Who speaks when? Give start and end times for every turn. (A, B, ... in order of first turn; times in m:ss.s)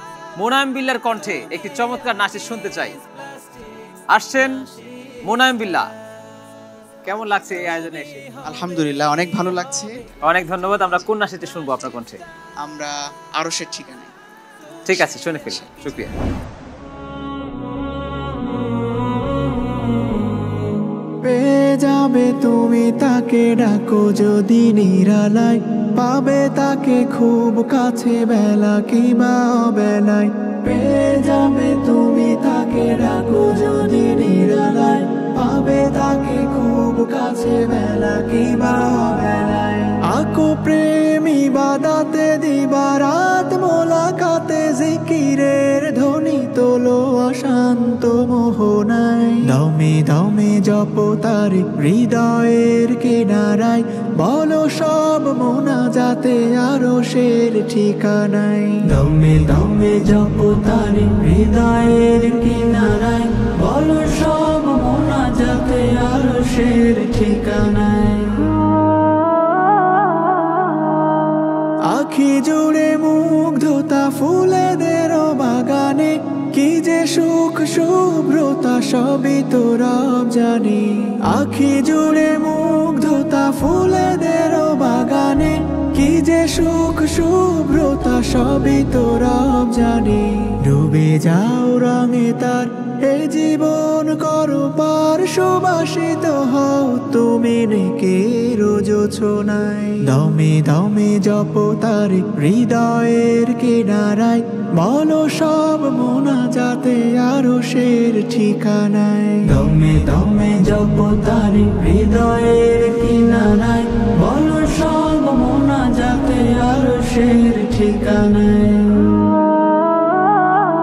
0:00.4-0:03.0 A
0:04.1-0:04.6 A
0:05.2-0:05.9 A
0:07.0-0:08.2 A
0:08.4-0:10.0 B
0:10.2-0:12.2 A
0:12.6-0:14.1 B
0:14.8-0:16.1 A
0:21.2-1:08.5 C
1:11.9-1:59.3 C